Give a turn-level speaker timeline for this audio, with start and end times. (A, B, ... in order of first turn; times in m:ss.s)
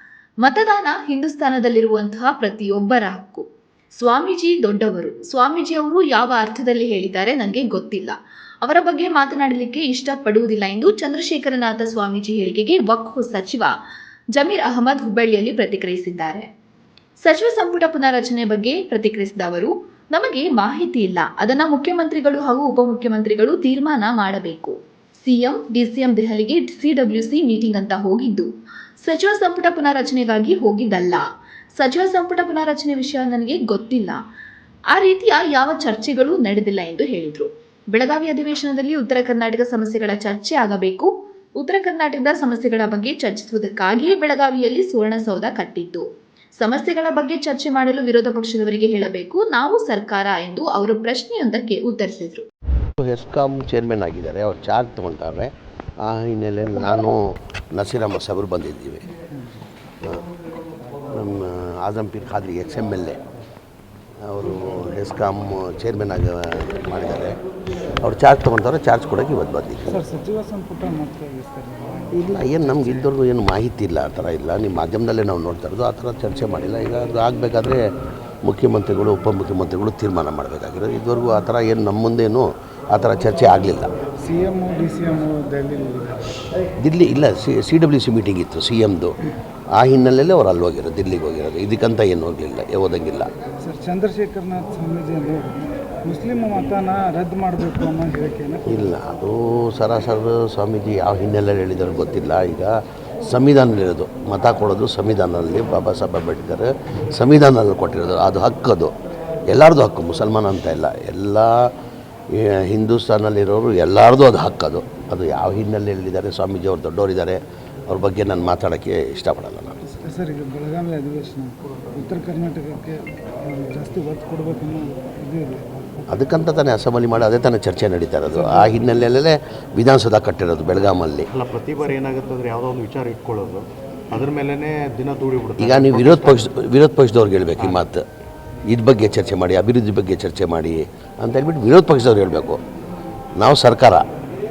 0:00.4-0:13.7 A
0:14.3-0:16.4 A
0:17.2-0:28.5 A
0:29.0-0:31.2 A
0:31.7-0:34.2 A
0:34.9-0:46.0 A
0:46.6-0:52.4 A
0:53.0-0:59.1 B
1:01.1-1:03.2 B
1:04.2-1:07.4 B
1:08.0-1:10.0 B
1:09.9-1:13.1 C
1:12.1-1:17.9 B
1:18.4-1:23.9 B
1:24.2-1:26.3 C
1:26.8-1:29.2 B
1:29.7-1:33.3 B
1:33.6-1:38.9 C
1:38.6-1:48.9 B
1:49.5-1:51.7 B
1:52.3-1:59.8 B
1:59.8-2:06.2 C
2:06.1-2:11.3 B
2:08.3-2:08.8 C
2:11.3-2:16.4 D
2:15.6-2:18.0 B
2:17.6-2:17.8 D
2:18.7-2:22.6 B
2:23.4-2:24.0 B